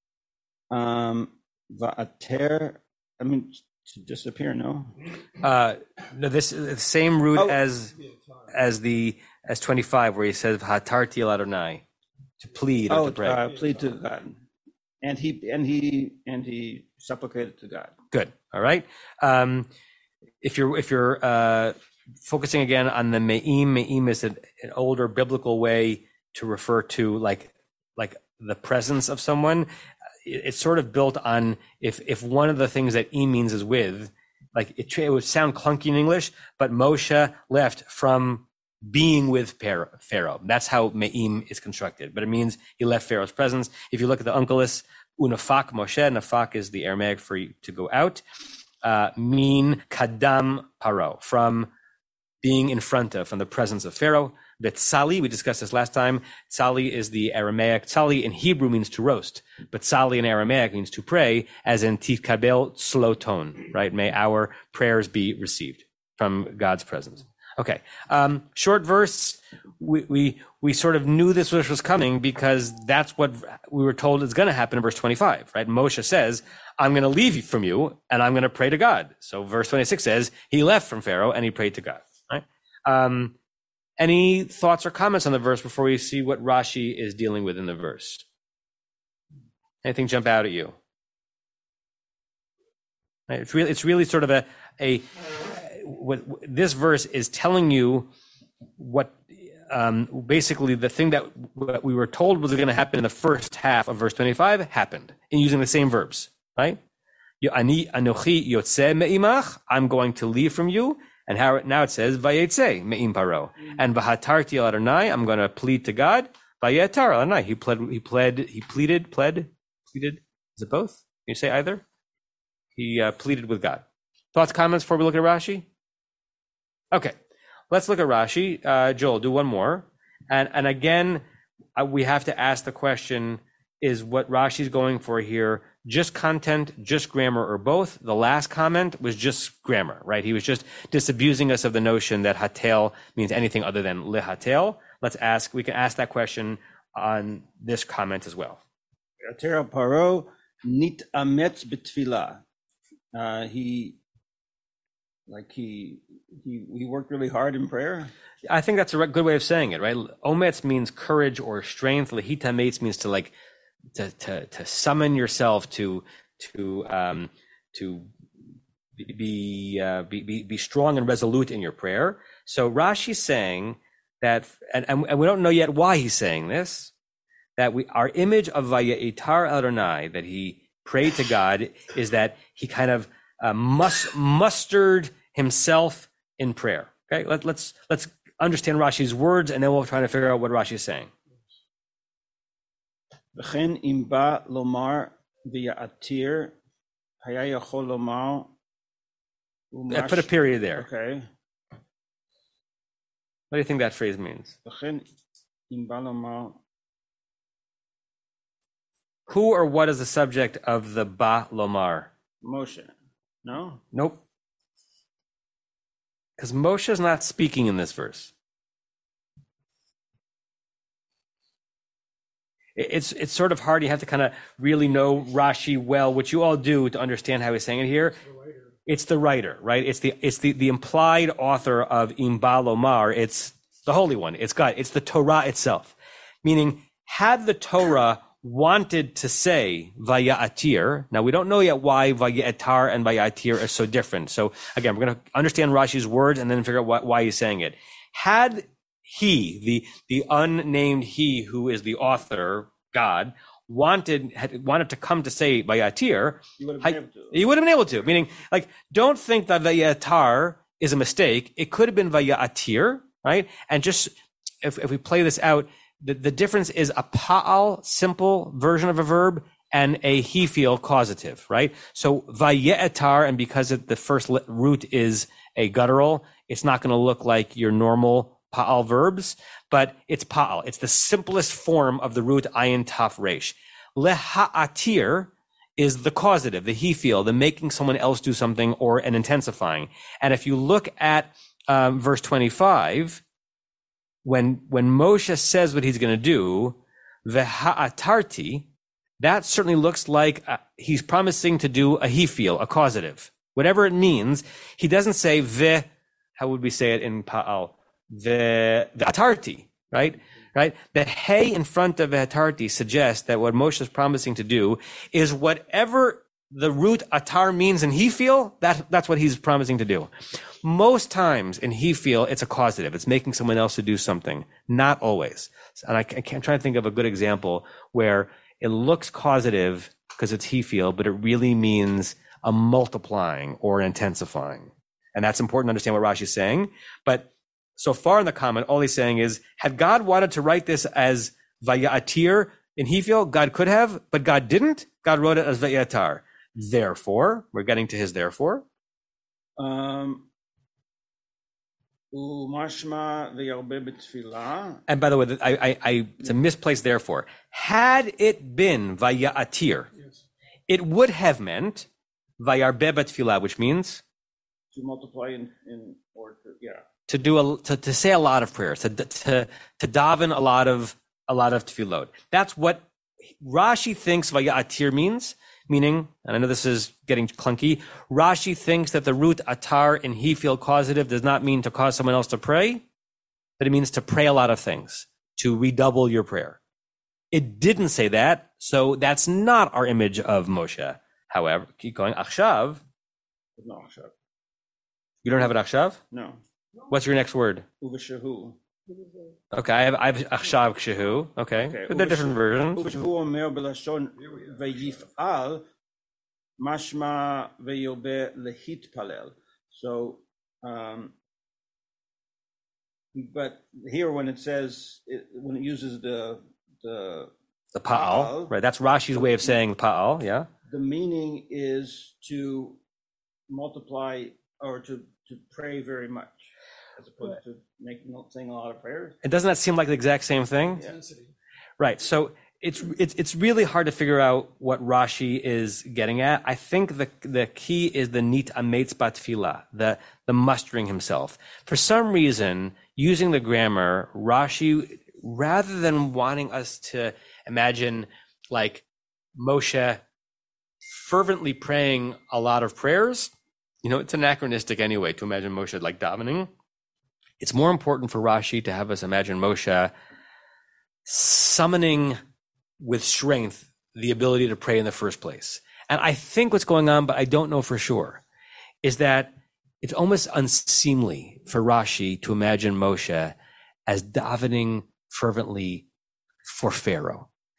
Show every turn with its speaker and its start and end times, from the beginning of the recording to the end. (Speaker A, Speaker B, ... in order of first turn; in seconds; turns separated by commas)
Speaker A: 0.7-5.0, Speaker B: 5.4-7.9, Speaker B: 8.5-11.8, Speaker B: 12.4-13.4, Speaker A: 12.9-14.4, Speaker A: 15.0-17.9, Speaker B: 18.1-19.7, Speaker B: 20.4-29.7, Speaker B: 30.2-48.2, Speaker B: 48.8-51.7, Speaker B: 52.4-83.3, Speaker B: 84.0-88.2, Speaker B: 89.8-90.8, Speaker B: 93.3-98.1, Speaker B: 98.8-106.8, Speaker B: 107.4-121.8, Speaker B: 122.8-125.7, Speaker B: 127.7-131.2, Speaker B: 131.8-148.6, Speaker A: 149.2-152.4, Speaker A: 153.1-154.0, Speaker A: 155.3-158.1, Speaker B: 158.4-163.3, Speaker B: 163.9-168.1, Speaker B: 169.0-176.9, Speaker B: 177.6-191.1, Speaker A: 193.3-196.5, Speaker A: 197.2-198.5, Speaker A: 199.7-201.3, Speaker B: 199.9-200.8, Speaker B: 203.5-204.5, Speaker A: 204.6-205.1, Speaker A: 205.7-206.6, Speaker B: 209.3-212.1, Speaker A: 212.4-212.9, Speaker A: 213.4-213.8, Speaker B: 213.9-214.2, Speaker B: 216.4-218.3, Speaker B: 222.8-228.2, Speaker B: 228.8-264.1, Speaker A: 256.6-257.4, Speaker B: 264.6-293.2, Speaker B: 294.2-298.7, Speaker B: 299.2-320.1, Speaker B: 320.6-348.6, Speaker A: 349.6-350.2, Speaker A: 352.1-354.8, Speaker B: 354.9-359.9, Speaker B: 360.7-361.9, Speaker B: 362.4-364.0, Speaker A: 364.7-366.8, Speaker B: 367.1-372.9, Speaker B: 373.4-382.8, Speaker B: 383.6-386.6, Speaker B: 387.3-392.8, Speaker A: 393.6-394.1, Speaker B: 395.2-396.0, Speaker A: 396.1-396.4, Speaker B: 396.9-397.6, Speaker A: 397.8-398.6, Speaker B: 399.5-402.8, Speaker A: 401.6-405.6, Speaker A: 406.6-411.1, Speaker A: 413.1-417.3, Speaker B: 417.8-420.5, Speaker A: 417.9-418.5, Speaker A: 420.7-422.8, Speaker A: 423.5-429.1, Speaker B: 429.2-430.8, Speaker B: 431.8-448.8, Speaker B: 449.4-450.0, Speaker B: 450.9-453.3, Speaker B: 453.8-456.5, Speaker B: 457.4-459.9, Speaker B: 461.1-462.2, Speaker B: 462.8-468.2, Speaker B: 468.8-473.3, Speaker B: 473.9-475.8, Speaker B: 476.5-477.3